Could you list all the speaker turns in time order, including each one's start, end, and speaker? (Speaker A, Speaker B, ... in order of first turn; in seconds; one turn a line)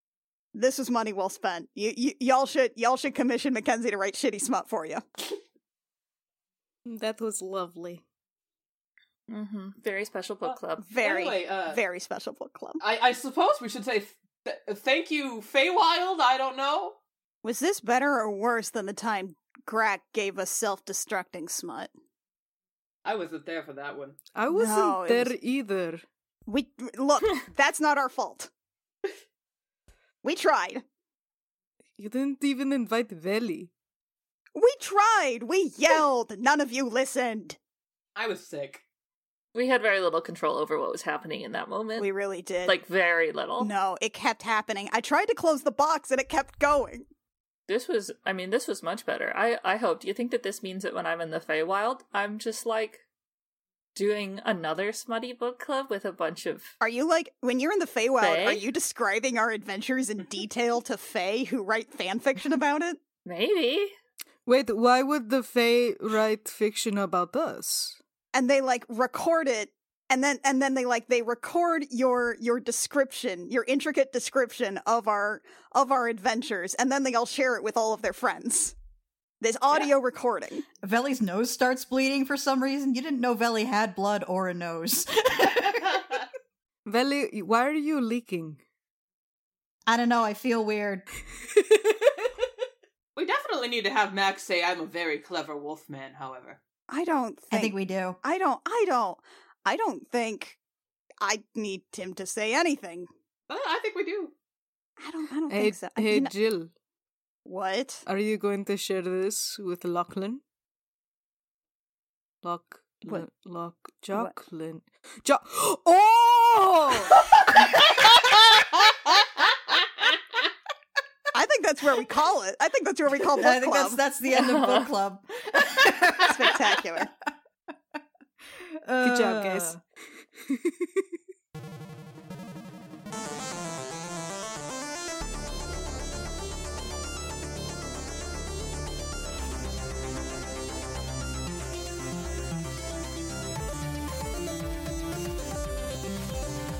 Speaker A: 0.6-5.0
Speaker B: 6.9-8.0
Speaker C: 9.3-10.9
Speaker D: 10.4-11.8
Speaker A: 10.8-12.8
Speaker D: 12.8-17.0
Speaker A: 17.4-21.9
Speaker D: 23.0-24.2
Speaker B: 24.4-26.1
Speaker A: 24.5-25.3
Speaker A: 26.5-28.5
Speaker A: 30.2-30.8
Speaker B: 32.0-33.7
Speaker A: 34.5-37.6
Speaker D: 38.2-38.8
Speaker C: 39.5-42.1
Speaker A: 42.0-42.8
Speaker C: 42.6-43.7
Speaker A: 43.6-47.1
Speaker C: 47.7-53.0
Speaker C: 54.0-56.7
Speaker A: 56.8-63.0
Speaker C: 58.2-58.7
Speaker C: 63.3-63.9
Speaker B: 64.5-68.0
Speaker A: 68.3-78.8
Speaker A: 79.4-80.7
Speaker E: 80.8-86.0
Speaker D: 85.6-86.2
Speaker B: 86.8-88.6
Speaker E: 89.9-91.1
Speaker D: 93.2-96.6
Speaker A: 96.9-100.6
Speaker E: 97.5-98.2
Speaker A: 101.2-103.1
Speaker D: 103.5-104.3
Speaker A: 105.0-106.3
Speaker B: 105.5-106.7
Speaker A: 107.5-108.0
Speaker B: 108.1-110.4
Speaker B: 112.4-117.2
Speaker D: 117.2-120.1
Speaker A: 121.3-124.0
Speaker E: 123.4-127.1
Speaker C: 124.3-124.9
Speaker A: 126.3-127.1
Speaker E: 128.6-129.8
Speaker B: 129.0-129.8
Speaker B: 130.4-131.1